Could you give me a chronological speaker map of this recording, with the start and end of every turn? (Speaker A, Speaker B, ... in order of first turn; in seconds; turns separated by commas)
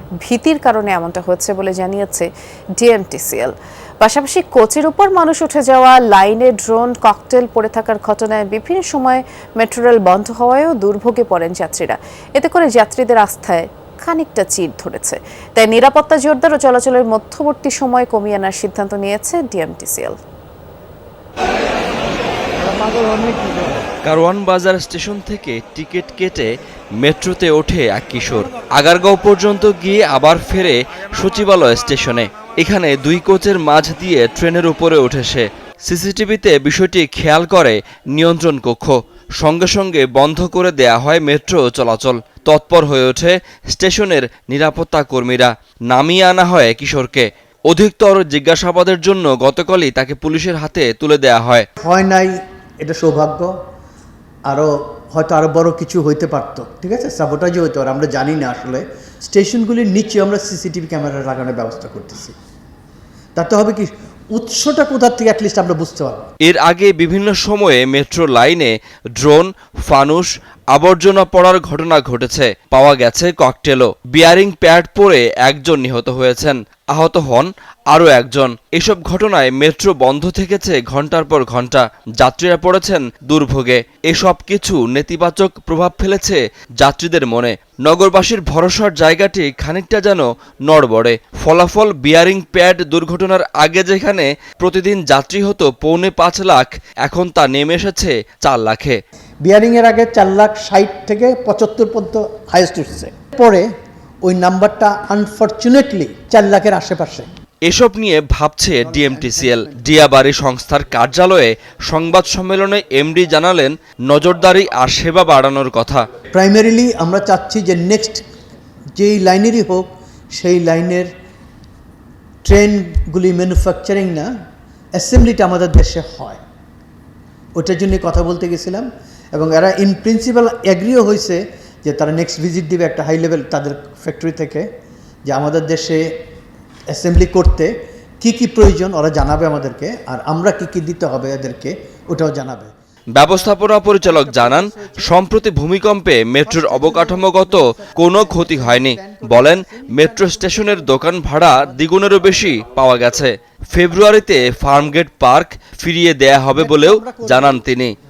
Speaker A: 0.2-20.2, Speaker B: 24.1-26.5, Speaker B: 27.0-51.7, Speaker C: 51.8-53.5, Speaker C: 54.5-62.4, Speaker C: 63.4-66.3, Speaker B: 66.5-99.0, Speaker C: 99.4-103.7, Speaker C: 104.2-107.3, Speaker B: 107.7-116.1, Speaker C: 108.8-110.1, Speaker C: 116.3-118.2, Speaker C: 119.0-121.1, Speaker C: 122.4-124.3, Speaker C: 125.0-126.4, Speaker C: 127.6-134.7, Speaker C: 135.2-136.1, Speaker C: 136.9-142.7, Speaker B: 143.2-157.9, Speaker C: 143.3-145.3, Speaker C: 146.4-152.4, Speaker C: 156.5-157.6